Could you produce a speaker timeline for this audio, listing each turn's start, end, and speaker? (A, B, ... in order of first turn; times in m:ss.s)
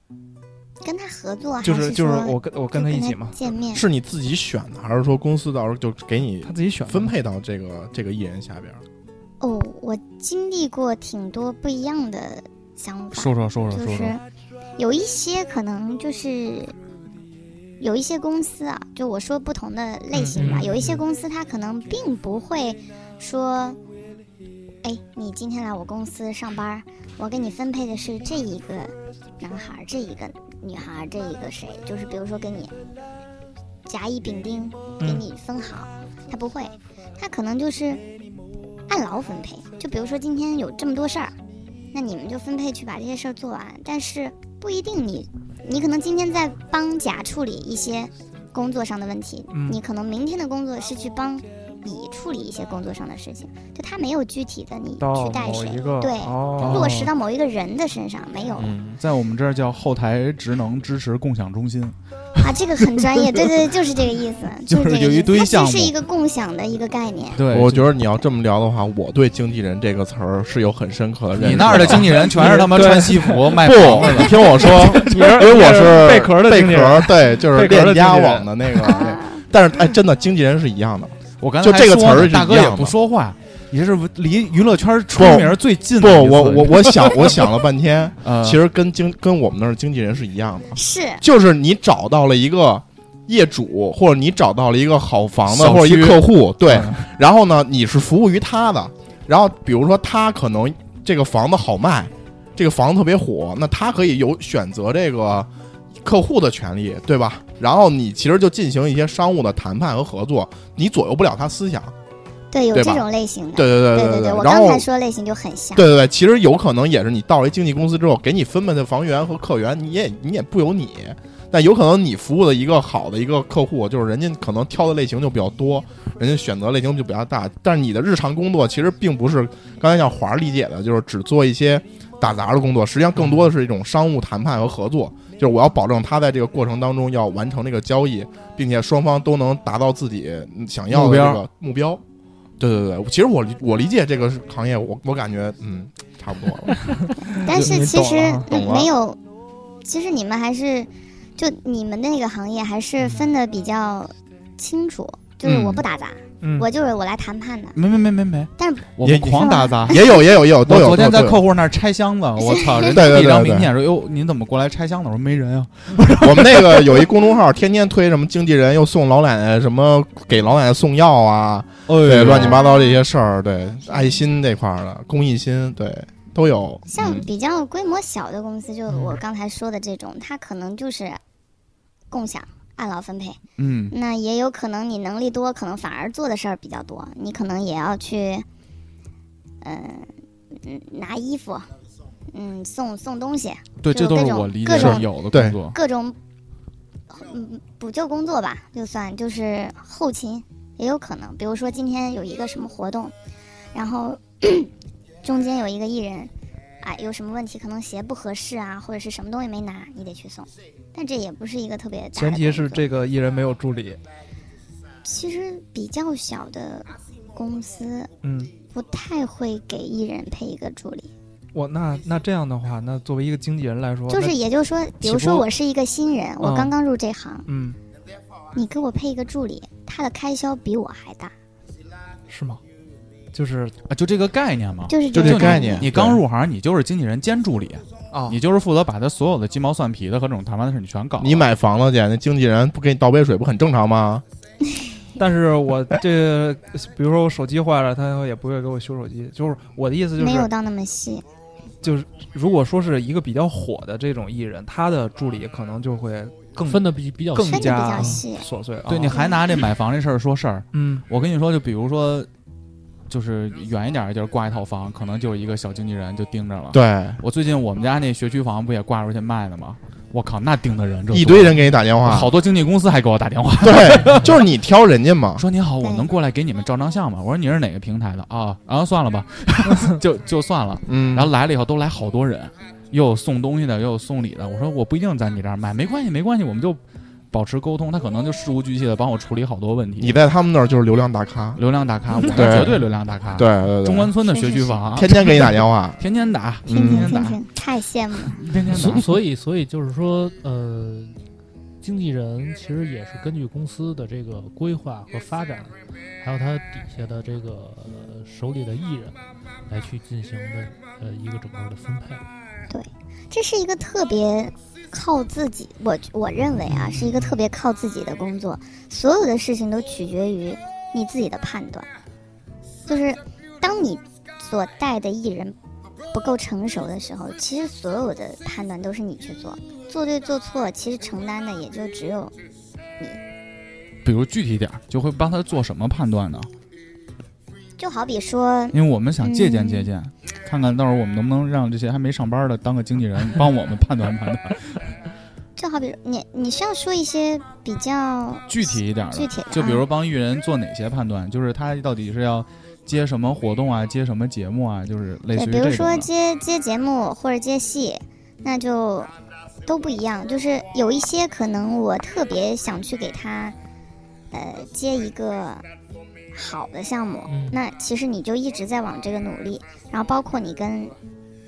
0:00.8-0:03.8 A
0:01.6-0:03.4 B
0:03.7-0:08.8 C
0:06.4-0:07.2 B
0:09.4-0:14.2 A
0:13.1-0:14.2 D
0:14.8-0:16.8 A
0:17.8-0:23.8 A
0:20.2-0:20.7 B
0:20.4-0:21.0 E
0:24.8-0:32.7 A
0:33.9-0:38.0 A
0:35.0-0:35.2 B
0:38.9-0:41.4 A
0:41.9-0:58.7 A
0:49.5-0:49.8 B
0:55.0-0:57.1 B
0:56.6-0:57.1 D
0:58.6-0:59.0 C
0:58.9-1:03.1 D
1:02.4-1:07.4 A
1:04.7-1:05.9 D
1:07.4-1:07.9 D
1:07.5-1:12.6 C
1:11.4-1:15.1 D
1:11.9-1:19.0 B
1:13.6-1:22.9 C
1:19.0-1:19.4 A
1:21.4-1:27.5 D
1:25.2-1:45.5 C
1:28.2-1:28.6 D
1:30.8-1:31.2 A
1:35.5-1:37.1 D
1:46.0-1:51.9 C
1:52.5-1:55.9 A
1:52.7-1:54.9 C
1:55.8-2:22.0 C
2:20.9-2:21.4 D
2:22.6-2:26.8 C
2:26.9-2:28.6 B
2:27.4-2:29.2 A
2:28.5-2:28.9 C
2:29.8-2:37.8 A
2:35.5-2:35.8 D
2:36.4-2:36.7 B
2:37.8-2:40.1 D
2:38.6-2:40.2 A
2:39.0-2:41.4 C
2:40.6-2:47.1 D
2:42.4-2:43.0 A
2:42.8-2:43.7 C
2:46.2-2:57.2 C
2:51.9-2:52.6 D
2:52.4-2:53.0 A
2:53.9-2:54.1 A
2:56.9-3:01.2 A
2:58.9-2:59.2 E
3:02.1-3:03.4 A
3:03.6-3:04.0 D
3:03.9-3:08.5 A
3:09.6-3:11.7 A
3:12.3-3:15.1 A
3:13.8-3:15.8 D
3:14.8-3:15.6 C
3:15.7-3:16.2 A
3:17.1-3:23.1 A
3:23.7-3:24.7 A
3:25.2-3:32.9 A
3:32.2-3:34.0 B
3:35.0-3:38.1 A
3:38.2-3:38.5 B
3:38.7-3:41.1 A
3:41.5-3:44.4 B
3:44.1-3:47.5 A
3:45.0-3:45.5 B
3:46.4-3:46.8 B
3:47.5-3:47.8 B
3:48.6-3:51.3 A
3:52.3-3:52.6 B
3:53.3-3:53.8 B
3:53.9-4:01.5 D
3:54.9-3:55.9 A
3:55.1-3:56.2 C
3:58.1-3:58.4 B
4:01.2-4:04.2 C
4:05.2-4:10.5 B
4:10.2-4:11.2 A
4:11.8-4:19.2 B
4:16.6-4:18.2 E
4:17.5-4:18.5 A
4:18.9-4:22.3 D
4:20.7-4:21.0 B
4:23.1-4:34.4 D
4:26.7-4:27.2 C
4:31.1-4:32.3 C
4:33.6-4:35.4 C
4:35.4-4:50.2 D
4:35.8-4:36.1 A
4:40.9-4:41.3 C
4:50.0-4:51.6 C
4:51.6-4:57.4 D
4:52.3-4:52.8 C
4:53.4-4:54.1 C
4:54.3-4:54.8 A
4:54.9-4:56.0 C
4:56.7-4:57.1 C
4:56.7-4:58.4 A
4:58.3-4:59.1 D
4:58.7-5:01.2 E
5:01.8-5:12.2 E
5:12.7-5:21.9 A
5:16.9-5:17.3 E
5:22.9-5:25.6 A
5:26.1-5:32.3 A
5:34.0-5:36.5 D
5:37.8-5:39.9 A
5:38.7-5:44.8 D
5:45.6-5:49.8 A
5:48.5-5:56.1 D
5:55.3-5:59.1 A
5:59.7-6:03.6 A
6:04.3-6:05.6 A
6:06.3-6:11.0 A
6:07.3-6:07.6 E